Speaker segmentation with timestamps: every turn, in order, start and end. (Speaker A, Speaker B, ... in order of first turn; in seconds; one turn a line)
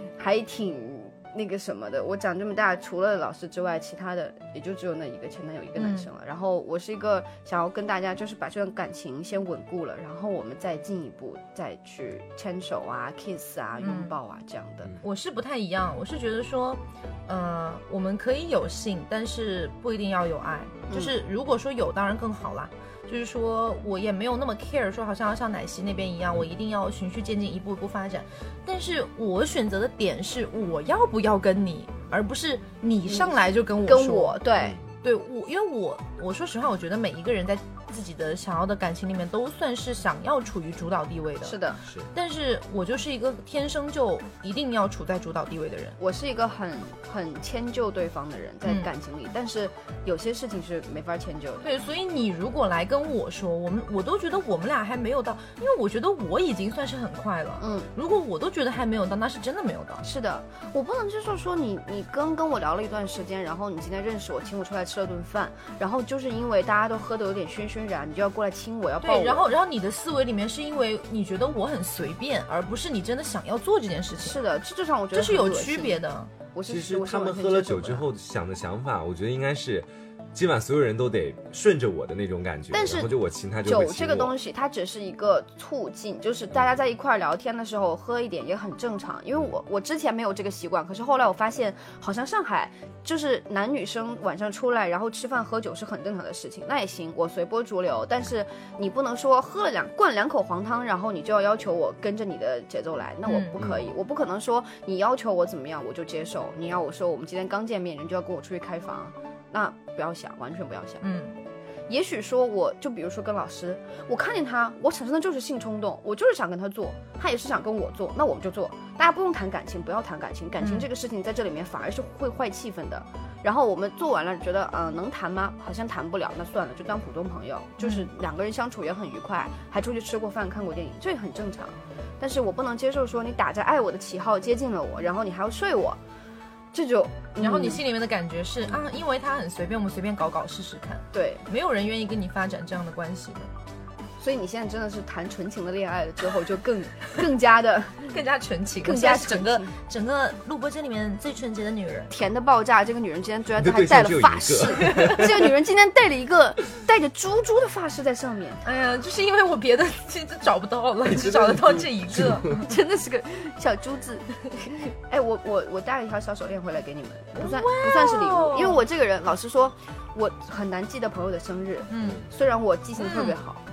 Speaker A: 0.2-14.9
Speaker B: 5.8-6.1
Speaker B: 13.8-14.1
Speaker B: 15.0-34.4
Speaker A: 33.1-34.8
Speaker B: 35.0-41.6
Speaker A: 41.4-41.8
Speaker B: 42.1-46.0
Speaker A: 46.0-51.6
Speaker B: 51.6-60.0
Speaker A: 57.6-57.9
Speaker A: 60.0-69.5
Speaker B: 69.0-74.4
Speaker A: 74.2-76.0
Speaker B: 75.1-76.3
Speaker A: 76.5-78.1
Speaker C: 76.7-84.3
Speaker A: 82.7-83.1
Speaker A: 83.6-111.0
Speaker B: 103.3-103.6
Speaker C: 103.6-103.9
Speaker B: 111.0-111.4
Speaker A: 111.9-136.0
Speaker B: 120.6-120.9
Speaker B: 127.8-128.1
Speaker A: 136.7-137.8
Speaker B: 137.4-143.5
Speaker A: 141.1-141.4
Speaker A: 144.2-148.1
Speaker B: 148.1-152.1
Speaker A: 148.8-149.7
Speaker A: 152.1-158.6
Speaker C: 153.6-155.5
Speaker B: 154.8-155.2
Speaker B: 158.6-162.7
Speaker C: 161.1-162.6
Speaker A: 162.7-173.6
Speaker B: 167.4-168.8
Speaker B: 171.9-172.2
Speaker B: 173.0-173.4